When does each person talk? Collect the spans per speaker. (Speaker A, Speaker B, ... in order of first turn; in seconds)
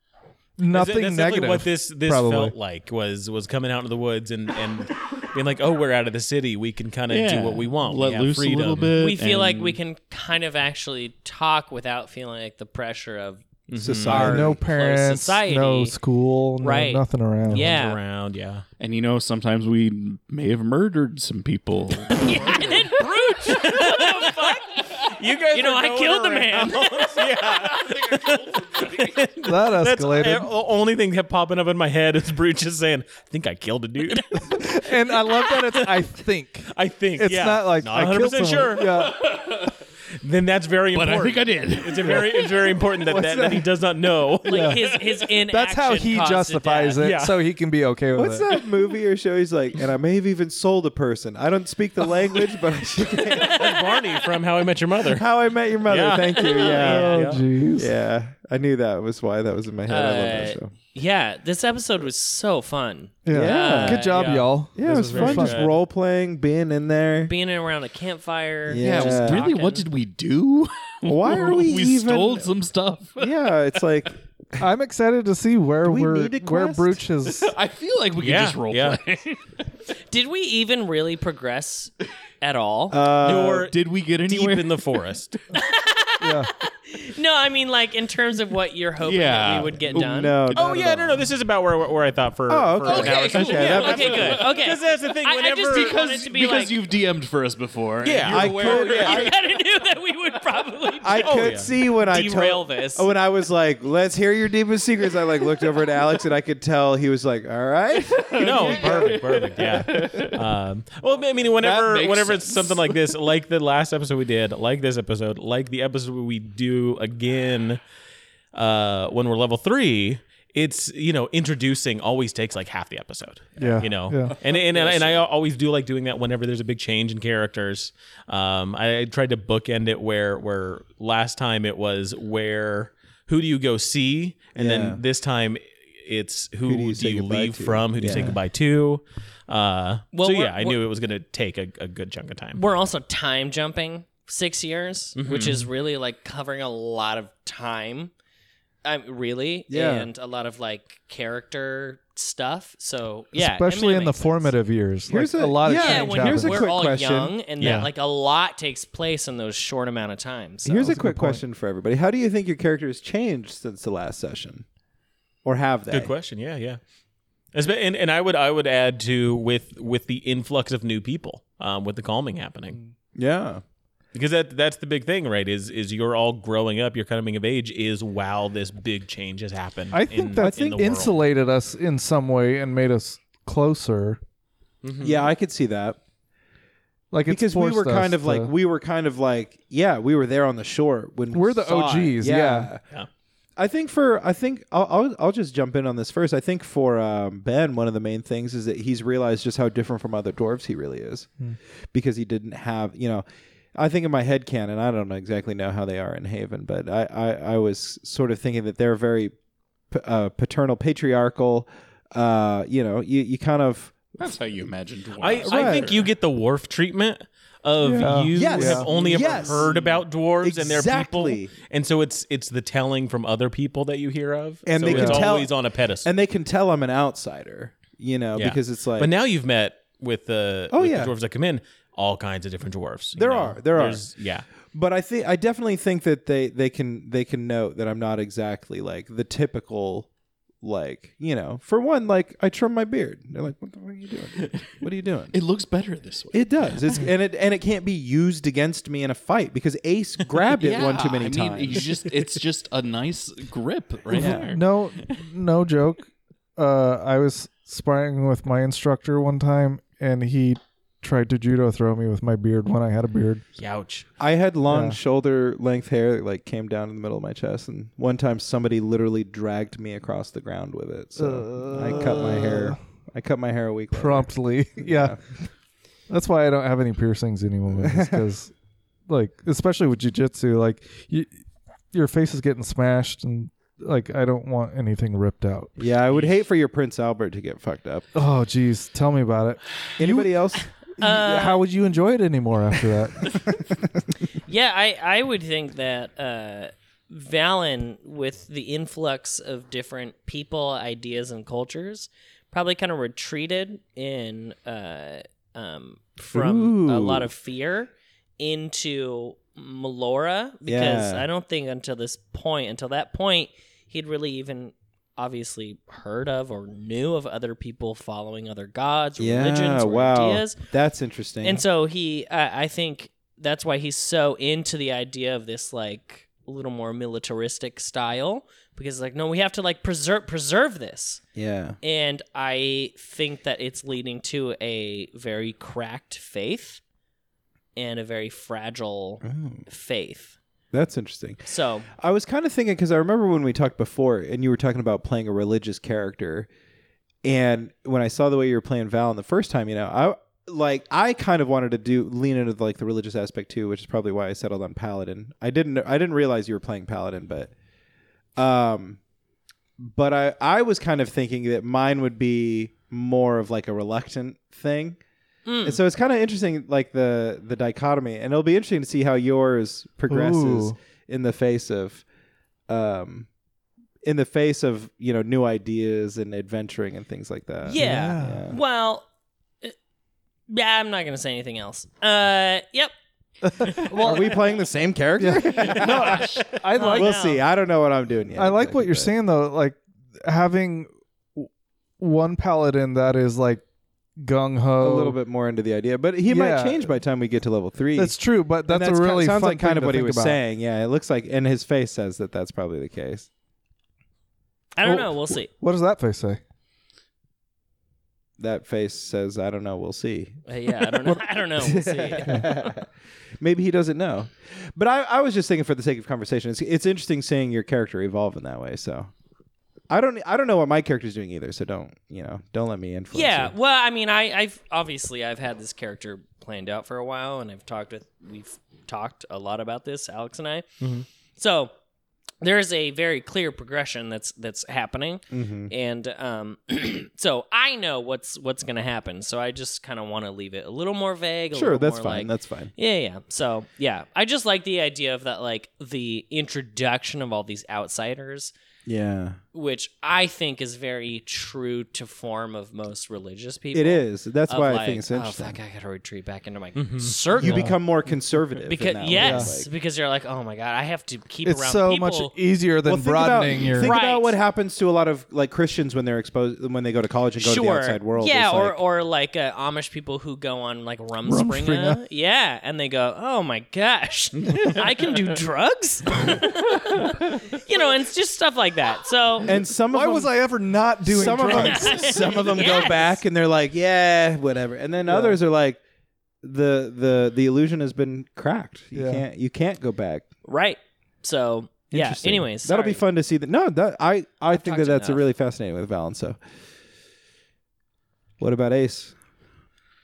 Speaker A: 0.6-2.5, 14.1-17.7, 29.4-30.5, 34.4-39.2, 44.5-44.8, 45.5-48.5, 56.7-57.9, 63.2-65.7, 74.6-77.5, 86.2-86.5, 123.6-124.3, 138.1-138.3, 153.3-156.7, 160.8-161.4, 179.9-184.2, 187.1-188.5, 191.3-192.7, 217.9-218.8, 224.9-225.3, 254.1-263.4, 264.7-265.0, 271.2-272.8, 273.9-275.2, 276.1-278.5, 279.1-281.3, 281.9-285.8, 288.1-290.3, 291.0-293.5, 370.1-370.8, 377.6-378.5, 383.4-384.4, 385.2-387.1, 388.3-393.6, 394.2-395.2, 396.2-396.9, 397.9-400.4, 404.8-406.4, 457.4-457.7, 459.1-459.5, 461.4-463.9, 471.2-472.0, 479.9-482.4, 485.1-485.4, 488.9-489.2
Speaker B: 0.7-8.9, 13.7-14.4, 17.5-18.6, 23.5-34.6, 35.4-35.9, 36.7-39.2, 40.2-44.8, 47.0-47.3, 53.3-55.3, 55.8-57.4, 64.1-65.8, 78.2-79.0, 83.2-85.4, 90.5-95.9, 98.0-98.5, 101.2-101.7, 108.3-117.8, 118.5-142.6, 145.2-145.7, 157.6-157.9, 165.9-166.8, 167.5-172.8, 174.1-181.2, 184.8-185.3, 215.2-226.1, 228.3-234.4, 263.6-264.1, 456.8-457.1
Speaker C: 7.1-9.8, 18.8-23.0, 27.8-29.2, 39.1-39.7, 40.9-42.8, 68.8-73.4, 77.3-79.5, 83.5-85.0, 89.0-90.7, 92.8-94.5, 95.7-99.3, 108.1-110.5, 111.6-113.1, 214.2-216.1, 219.1-219.6, 244.3-244.7, 245.3-247.0, 250.6-255.2
Speaker D: 9.0-13.4, 14.2-15.9, 16.6-18.0, 22.1-24.8, 25.5-27.2, 44.4-47.0, 53.2-54.1, 56.4-56.8, 59.9-64.3, 67.2-69.9, 80.1-83.0, 85.5-90.4, 93.4-96.8, 98.3-103.1, 140.1-140.8, 142.5-148.1, 148.8-154.5, 155.6-160.9, 291.0-291.6, 294.4-320.6, 321.4-331.2, 331.8-336.8, 337.8-340.4, 341.4-341.9, 365.4-365.8, 377.6-379.1, 380.5-382.9, 383.6-384.1, 385.9-387.4, 404.7-405.5, 410.4-412.4, 423.1-430.8, 431.4-431.7, 432.4-448.5, 449.5-457.8, 458.6-462.3, 463.7-464.4, 467.4-479.5, 481.2-483.2, 490.4-493.0, 494.5-495.3
Speaker E: 13.8-14.6, 43.1-43.6, 48.1-54.0, 55.0-60.7, 63.3-64.1, 64.7-67.3, 68.7-69.4, 71.0-72.5, 73.2-74.7, 75.8-77.0, 82.9-83.7, 89.9-91.2, 92.5-94.3, 98.3-99.3, 101.0-109.2, 134.6-135.0, 136.6-138.4, 149.7-150.1, 155.1-157.3, 160.6-164.6, 165.4-166.1, 173.1-173.6, 180.4-180.8, 185.0-186.0, 187.3-192.8, 193.6-201.3, 201.9-209.3, 209.9-214.2, 215.4-215.9, 217.8-221.5, 224.7-229.1, 230.7-231.1, 233.2-234.1, 234.7-240.1, 240.6-245.3, 246.3-252.0, 254.1-254.5, 264.2-275.2, 277.8-278.2, 285.8-288.1, 290.0-290.7, 306.3-307.3, 310.6-311.3, 319.2-321.6, 331.4-331.8, 339.2-339.6, 340.7-346.5, 347.2-357.5, 358.4-359.0, 359.8-365.0, 365.6-372.0, 372.7-373.3, 374.0-378.6, 383.9-389.1, 394.8-398.1, 398.7-403.3, 408.4-412.9, 413.4-419.1, 419.9-423.5, 435.3-435.7, 441.5-442.7, 448.9-449.4, 453.7-455.6, 457.4-459.7, 462.9-468.8, 479.4-480.5, 481.0-485.8, 486.4-490.2, 491.9-496.4, 498.4-499.1